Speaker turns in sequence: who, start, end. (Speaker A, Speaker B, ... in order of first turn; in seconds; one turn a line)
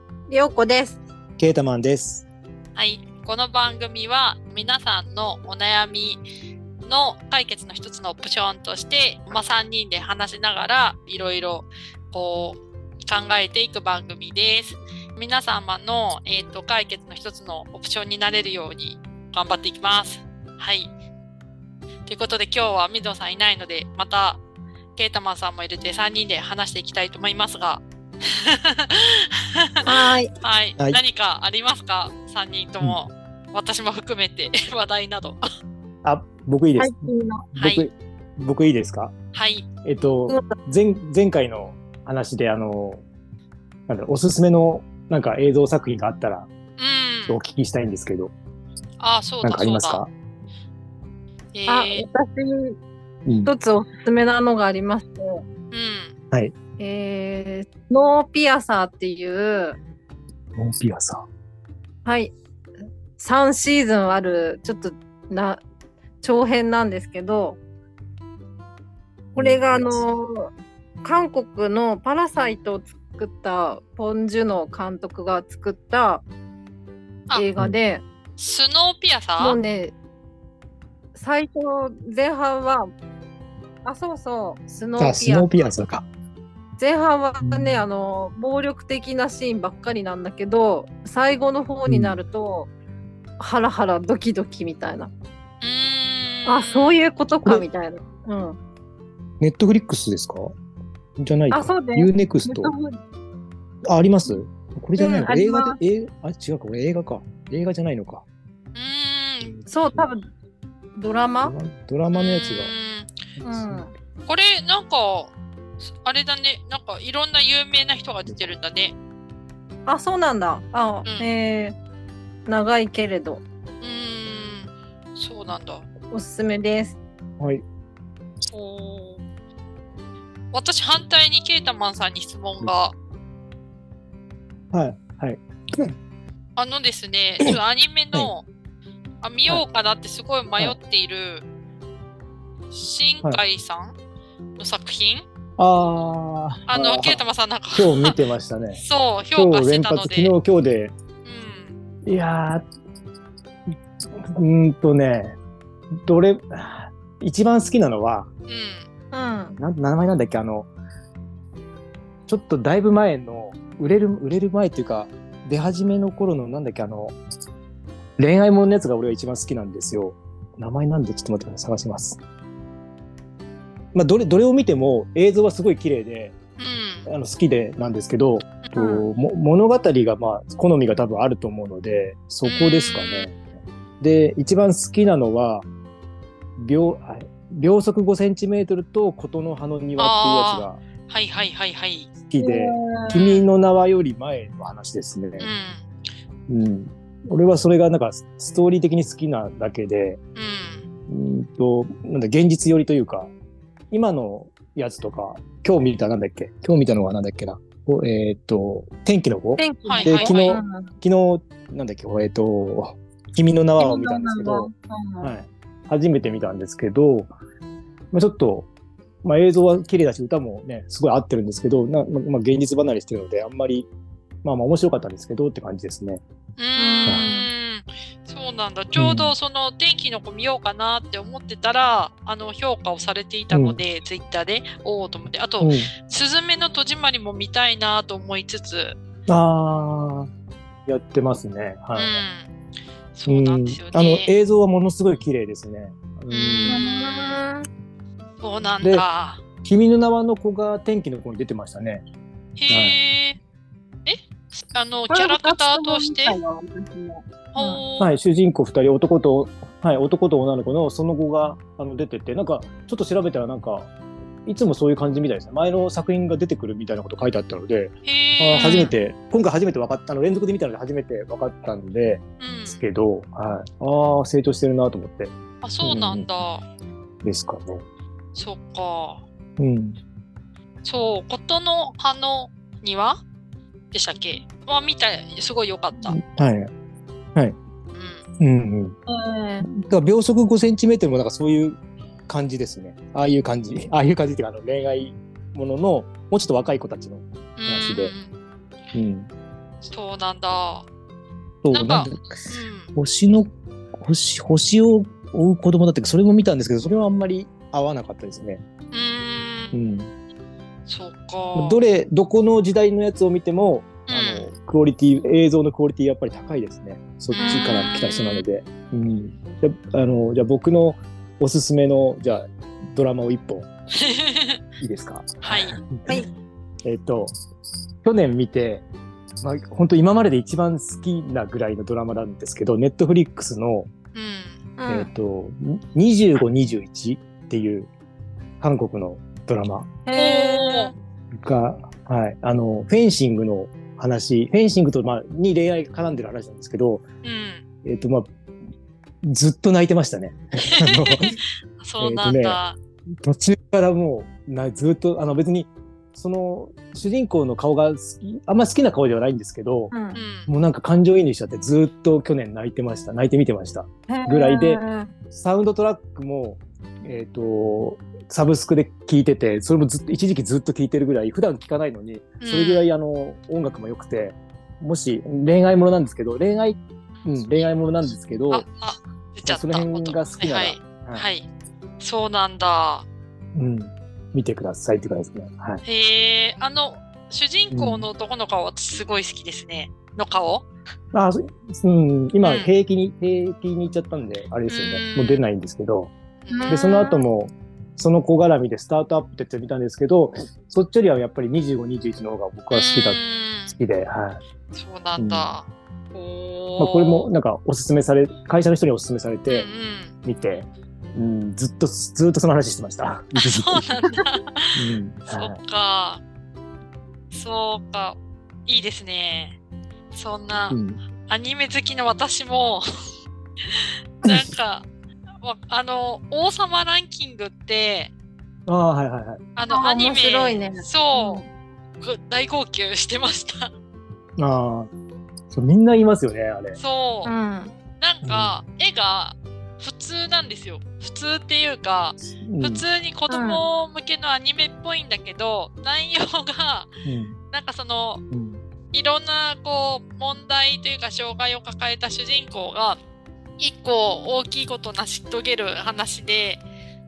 Speaker A: 0.3-1.0
Speaker B: 1.4-2.2
Speaker C: 2.7-6.2
Speaker C: 6.8-20.9
Speaker C: 22.1-24.4
Speaker C: 24.9-35.5
Speaker A: 29.8-30.3
Speaker B: 36.0-39.1
Speaker A: 36.8-37.5
Speaker C: 37.6-37.8
Speaker C: 39.3-39.7
Speaker B: 39.8-43.0
Speaker A: 40.3-40.5
Speaker B: 43.9-46.5
Speaker C: 46.8-47.4
Speaker B: 47.3-48.3
Speaker C: 49.0-50.0
Speaker B: 49.4-50.1
Speaker C: 51.5-52.0
Speaker A: 51.7-52.8
Speaker B: 53.2-53.5
Speaker A: 53.5-55.4
Speaker C: 55.7-56.1
Speaker A: 56.8-59.8
Speaker B: 60.5-61.2
Speaker A: 62.0-62.3
Speaker A: 63.2-65.6
Speaker A: 66.2-67.6
Speaker A: 69.3-70.5
Speaker B: 69.3-70.0
Speaker A: 71.0-76.2
Speaker A: 77.3-78.0
Speaker C: 78.4-79.6
Speaker A: 79.4-79.9
Speaker A: 81.1-82.9
Speaker A: 83.8-85.7
Speaker B: 85.0-86.0
Speaker A: 86.8-92.7
Speaker B: 87.4-87.8
Speaker B: 91.9-92.2
Speaker A: 93.4-95.1
Speaker C: 95.6-97.0
Speaker A: 96.5-98.6
Speaker B: 99.4-100.5
Speaker B: 101.2-102.7
Speaker A: 101.5-103.0
Speaker B: 103.9-108.2
Speaker A: 105.0-105.8
Speaker C: 108.7-109.5
Speaker B: 109.4-110.1
Speaker A: 109.7-110.3
Speaker A: 111.0-111.5
Speaker B: 111.4-112.7
Speaker C: 112.1-113.1
Speaker B: 113.4-113.9
Speaker A: 113.4-113.9
Speaker C: 114.2-118.9
Speaker A: 119.9-121.8
Speaker C: 121.0-121.3
Speaker A: 122.5-123.4
Speaker C: 123.8-125.8
Speaker A: 126.1-127.0
Speaker C: 128.5-129.2
Speaker C: 130.5-132.9
Speaker B: 134.7-135.9
Speaker C: 136.6-138.4
Speaker C: 139.2-141.4
Speaker C: 142.7-143.9
Speaker C: 144.6-145.2
Speaker B: 145.6-148.8
Speaker C: 146.7-148.2
Speaker C: 148.8-150.3
Speaker B: 149.3-150.9
Speaker C: 151.2-151.7
Speaker B: 152.0-152.6
Speaker B: 154.2-155.4
Speaker B: 156.0-158.3
Speaker C: 158.5-158.9
Speaker A: 159.1-159.6
Speaker B: 159.6-160.7
Speaker B: 162.3-167.2
Speaker B: 168.2-172.2
Speaker B: 173.9-176.3
Speaker C: 176.6-177.1
Speaker B: 177.1-183.4
Speaker A: 178.7-179.0
Speaker C: 182.4-183.3
Speaker B: 184.0-185.7
Speaker B: 186.6-190.8
Speaker C: 190.0-192.1
Speaker B: 192.3-195.5
Speaker A: 192.4-193.1
Speaker C: 193.1-193.5
Speaker C: 195.4-195.8
Speaker B: 196.5-200.2
Speaker C: 200.3-200.9
Speaker B: 201.1-203.3
Speaker B: 203.9-214.7
Speaker A: 209.6-210.9
Speaker C: 209.8-210.6
Speaker A: 213.8-215.3
Speaker B: 215.2-217.3
Speaker B: 218.1-218.7
Speaker B: 219.2-223.9
Speaker B: 224.4-226.2
Speaker C: 226.6-239.0
Speaker A: 226.8-227.5
Speaker B: 228.9-229.3
Speaker B: 233.5-233.8
Speaker B: 235.6-235.9
Speaker B: 239.3-240.3
Speaker B: 240.9-242.2
Speaker C: 241.9-242.5
Speaker C: 243.1-244.3
Speaker B: 243.3-246.8
Speaker C: 246.3-247.4
Speaker A: 246.7-247.7
Speaker C: 248.4-249.4
Speaker B: 249.6-252.0
Speaker C: 252.6-253.4
Speaker B: 252.7-253.0
Speaker C: 254.1-256.4
Speaker A: 255.1-257.8
Speaker C: 257.5-258.1
Speaker B: 258.0-263.9
Speaker B: 264.4-276.3
Speaker C: 268.0-268.9
Speaker C: 272.4-272.8
Speaker C: 275.6-276.6
Speaker B: 277.2-277.8
Speaker C: 278.3-279.2
Speaker B: 279.6-280.0
Speaker C: 280.8-283.2
Speaker C: 283.9-286.2
Speaker B: 286.0-286.7
Speaker C: 287.9-288.2
Speaker B: 288.4-288.9
Speaker A: 289.1-289.6
Speaker B: 289.6-298.1
Speaker C: 297.6-298.3
Speaker B: 298.9-299.3
Speaker C: 299.8-300.9
Speaker B: 301.6-302.2
Speaker C: 301.7-302.9
Speaker B: 302.9-308.6
Speaker C: 308.9-309.7
Speaker B: 309.7-310.1
Speaker C: 310.9-311.8
Speaker B: 311.6-323.7
Speaker C: 314.1-314.5
Speaker C: 317.3-318.4
Speaker A: 317.4-317.9
Speaker C: 323.9-324.6
Speaker B: 324.8-326.2
Speaker C: 325.4-325.8
Speaker B: 326.8-327.3
Speaker B: 328.0-328.8
Speaker B: 329.4-333.9
Speaker C: 334.1-334.6
Speaker A: 334.8-335.1
Speaker B: 334.9-337.9
Speaker B: 338.6-339.9
Speaker A: 340.1-340.9
Speaker C: 340.1-340.9
Speaker B: 341.4-347.0
Speaker C: 347.2-347.6
Speaker B: 347.8-348.3
Speaker B: 349.2-351.4
Speaker C: 350.7-352.8
Speaker B: 352.0-352.6
Speaker B: 353.2-359.9
Speaker A: 359.9-360.2
Speaker C: 360.1-360.5
Speaker B: 360.5-378.6
Speaker A: 364.1-365.1
Speaker C: 372.4-372.9
Speaker C: 378.5-381.5
Speaker B: 379.4-381.3
Speaker C: 382.0-383.1
Speaker B: 383.5-385.8
Speaker C: 385.8-390.7
Speaker B: 387.7-388.1
Speaker B: 391.1-396.1
Speaker C: 392.4-392.7
Speaker C: 394.7-395.4
Speaker C: 396.4-396.9
Speaker A: 396.5-397.2
Speaker B: 396.7-404.4
Speaker C: 402.7-403.8
Speaker C: 404.7-407.3
Speaker B: 405.2-405.5
Speaker B: 406.8-409.7
Speaker C: 409.5-410.1
Speaker B: 410.2-413.9
Speaker C: 413.4-416.2
Speaker B: 414.8-415.6
Speaker C: 417.3-419.6
Speaker C: 420.1-422.8
Speaker B: 420.7-421.0
Speaker C: 423.7-424.9
Speaker B: 424.2-424.5
Speaker C: 425.4-428.1
Speaker B: 428.7-429.4
Speaker C: 429.6-431.4
Speaker A: 429.7-431.5
Speaker C: 432.0-433.7
Speaker B: 434.4-434.9
Speaker B: 435.5-436.8
Speaker C: 436.8-437.3
Speaker A: 437.2-437.7
Speaker C: 438.0-446.9
Speaker B: 438.2-438.5
Speaker B: 442.4-442.8
Speaker A: 443.3-443.6
Speaker B: 447.0-447.4
Speaker C: 447.5-448.2
Speaker B: 448.3-448.6
Speaker C: 448.9-453.0
Speaker C: 453.6-456.6